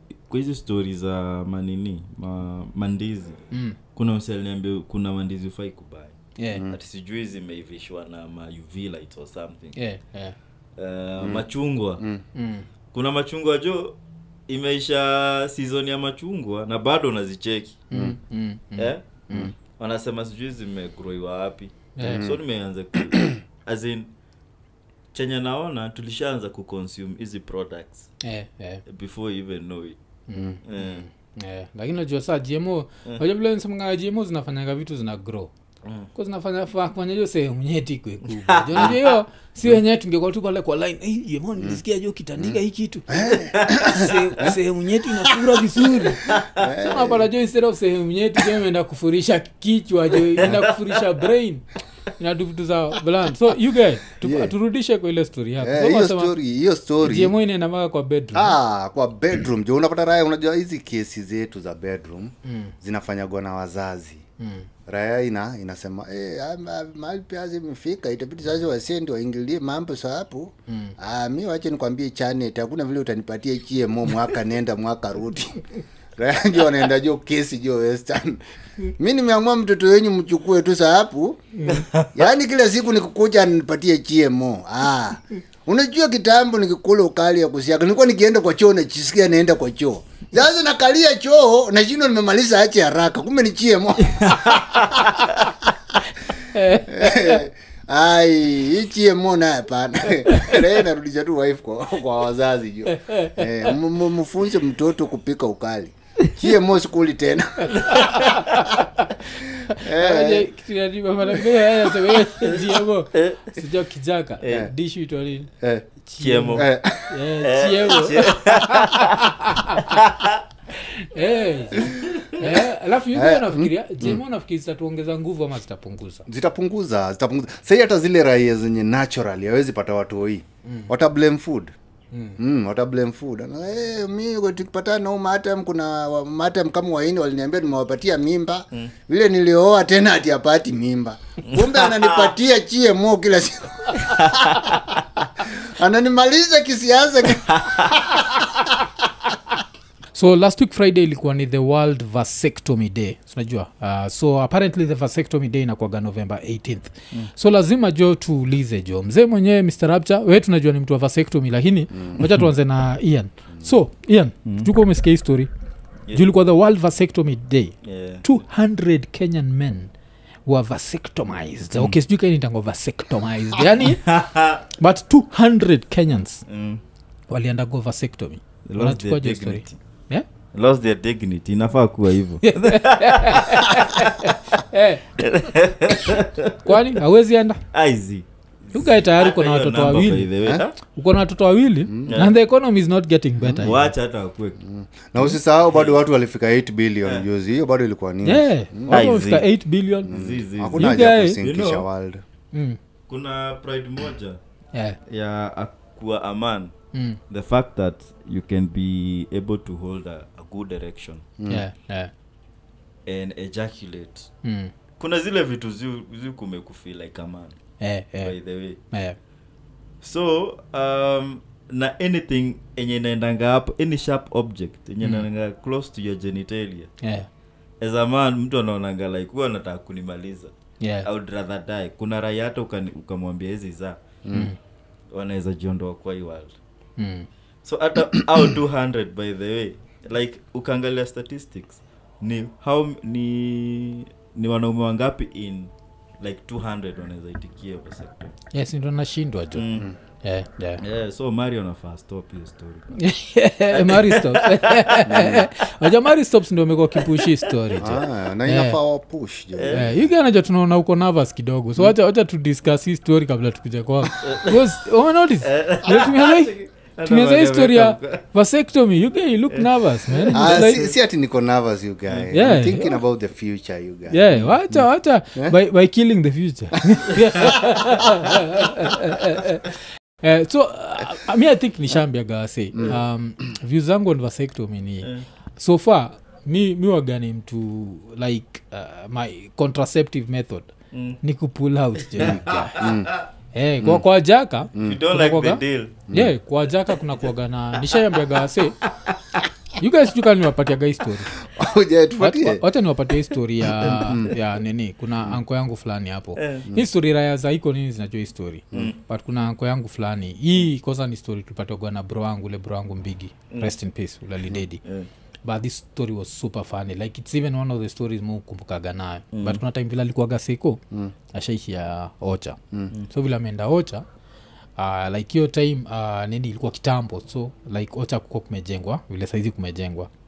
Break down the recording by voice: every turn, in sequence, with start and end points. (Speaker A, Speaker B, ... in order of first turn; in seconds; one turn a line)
Speaker A: 0.3-6.2
Speaker B: 6.4-6.7
Speaker A: 6.7-9.8
Speaker B: 9.8-10.3
Speaker A: 10.8-12.0
Speaker B: 12.3-12.7
Speaker A: 12.9-14.0
Speaker A: 14.5-17.8
Speaker B: 17.9-19.5
Speaker A: 18.8-19.0
Speaker A: 19.6-24.1
Speaker B: 22.0-22.3
Speaker C: 22.0-22.4
Speaker A: 25.1-28.1
Speaker B: 28.2-28.8
Speaker A: 28.9-30.0
Speaker B: 30.3-35.5
Speaker A: 30.7-31.1
Speaker B: 36.1-51.6
Speaker A: 38.4-39.1
Speaker C: 43.1-44.5
Speaker A: 43.2-43.9
Speaker C: 45.8-47.3
Speaker C: 50.4-50.7
Speaker B: 52.2-56.3
Speaker C: 54.2-54.5
Speaker C: 55.6-57.3
Speaker B: 57.0-58.6
Speaker C: 58.3-64.2
Speaker B: 62.5-62.7
Speaker B: 64.4-64.7
Speaker C: 64.9-75.6
Speaker B: 70.7-71.0
Speaker C: 76.2-78.4
Speaker C: 79.0-81.5
Speaker B: 81.5-81.9
Speaker A: 81.8-82.1
Speaker C: 82.1-94.8
Speaker A: 94.2-95.3
Speaker B: 96.4-97.4
Speaker C: 96.8-108.1
Speaker B: 100.3-100.6
Speaker B: 102.9-103.4
Speaker A: 107.8-108.4
Speaker B: 107.9-115.5
Speaker C: 109.7-110.5
Speaker A: 112.4-113.4
Speaker B: 116.0-120.0
Speaker A: 116.2-116.7
Speaker C: 116.5-117.2
Speaker A: 117.4-120.4
Speaker B: 120.7-126.3
Speaker A: 122.0-122.3
Speaker C: 123.2-124.2
Speaker C: 126.3-131.7
Speaker B: 132.1-132.4
Speaker C: 132.4-144.8
Speaker A: 141.5-142.0
Speaker A: 144.0-144.8
Speaker C: 145.4-148.7
Speaker A: 147.5-147.9
Speaker B: 150.1-165.5
Speaker B: 166.1-169.9
Speaker A: 167.8-168.3
Speaker B: 170.5-174.2
Speaker A: 173.9-174.6
Speaker B: 174.7-176.4
Speaker A: 176.5-176.8
Speaker B: 177.3-180.2
Speaker A: 178.7-179.8
Speaker A: 180.5-184.4
Speaker B: 182.4-185.0
Speaker A: 185.2-186.7
Speaker B: 186.6-187.6
Speaker A: 187.7-190.8
Speaker B: 188.7-193.9
Speaker C: 191.9-192.1
Speaker A: 192.1-192.4
Speaker A: 193.6-194.6
Speaker C: 194.6-199.1
Speaker A: 195.7-196.0
Speaker B: 198.2-200.1
Speaker A: 198.9-199.4
Speaker A: 200.0-201.9
Speaker C: 200.1-202.2
Speaker B: 200.8-201.4
Speaker B: 202.5-202.8
Speaker A: 203.1-204.4
Speaker A: 205.1-206.7
Speaker B: 206.9-207.2
Speaker A: 207.3-211.3
Speaker C: 211.4-211.6
Speaker B: 211.5-212.1
Speaker A: 213.1-214.3
Speaker B: 214.4-214.7
Speaker A: 215.0-217.6
Speaker B: 217.8-218.3
Speaker A: 218.2-218.8
Speaker B: 218.9-219.2
Speaker A: 220.0-226.9
Speaker B: 225.0-225.3
Speaker B: 227.0-227.3
Speaker A: 227.8-234.0
Speaker B: 230.8-231.1
Speaker C: 234.2-234.5
Speaker A: 235.1-236.5
Speaker B: 237.0-237.3
Speaker A: 237.6-248.3
Speaker B: 248.5-249.7
Speaker A: 249.6-249.9
Speaker B: 250.2-250.8
Speaker A: 250.8-253.0
Speaker B: 252.9-258.8
Speaker A: 253.7-255.0
Speaker C: 255.1-255.5
Speaker A: 257.0-257.5
Speaker C: 257.8-260.1
Speaker A: 259.6-259.9
Speaker B: 259.7-270.9
Speaker A: 264.2-264.7
Speaker A: 265.4-268.2
Speaker A: 269.5-270.9
Speaker C: 270.3-275.6
Speaker B: 272.3-273.0
Speaker B: 274.1-292.9
Speaker C: 276.9-278.4
Speaker A: 290.9-291.2
Speaker A: 292.1-293.2
Speaker C: 292.2-293.1
Speaker B: 293.5-298.8
Speaker C: 294.8-295.0
Speaker A: 294.8-296.0
Speaker B: 299.8-301.4
Speaker C: 301.4-302.6
Speaker B: 302.2-314.8
Speaker C: 303.8-304.3
Speaker A: 306.4-306.7
Speaker A: 308.7-309.0
Speaker A: 314.8-315.1
Speaker B: 315.4-320.8
Speaker A: 319.3-319.6
Speaker B: 321.3-324.1
Speaker B: 324.8-330.1